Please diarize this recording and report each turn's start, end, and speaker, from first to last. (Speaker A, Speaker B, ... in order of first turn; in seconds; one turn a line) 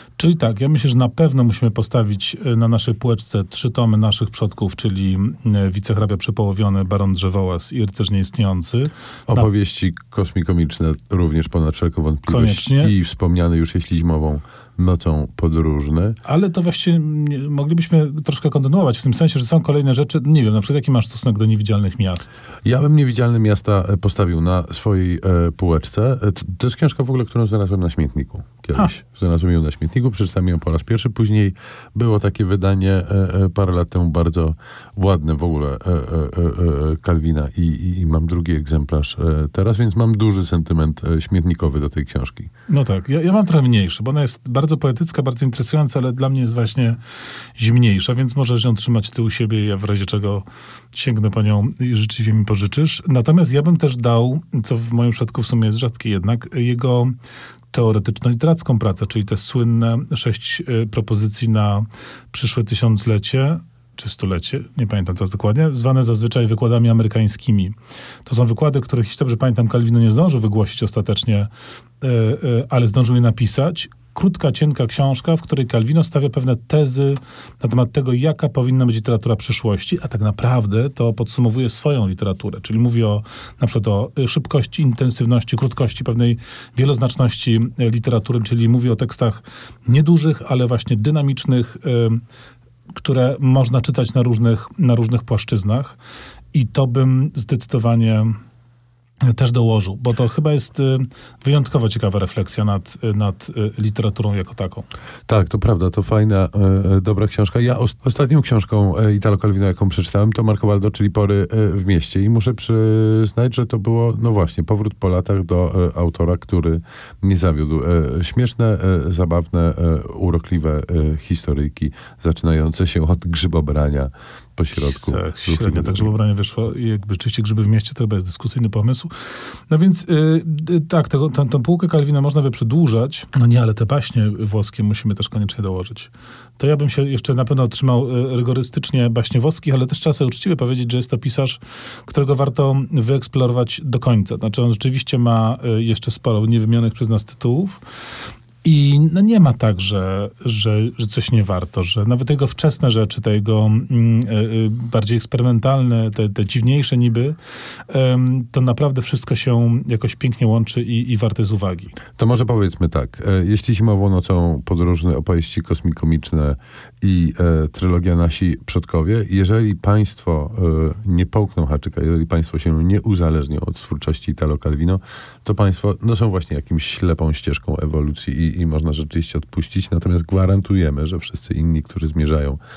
Speaker A: 0.2-9.4
Speaker B: 9.3-16.2
Speaker A: 12.3-12.9
Speaker A: 16.2-22.4
Speaker B: 22.6-42.5
Speaker A: 42.7-47.0
Speaker A: 47.5-57.1
Speaker A: 57.7-67.7
Speaker A: 68.2-71.5
Speaker A: 72.0-92.2
Speaker A: 92.9-96.0
Speaker A: 96.5-98.3
Speaker A: 99.2-104.8
Speaker B: 105.3-126.2
Speaker A: 124.8-129.1
Speaker A: 129.7-147.8
Speaker A: 148.6-157.3
Speaker A: 157.9-162.0
Speaker B: 162.2-182.6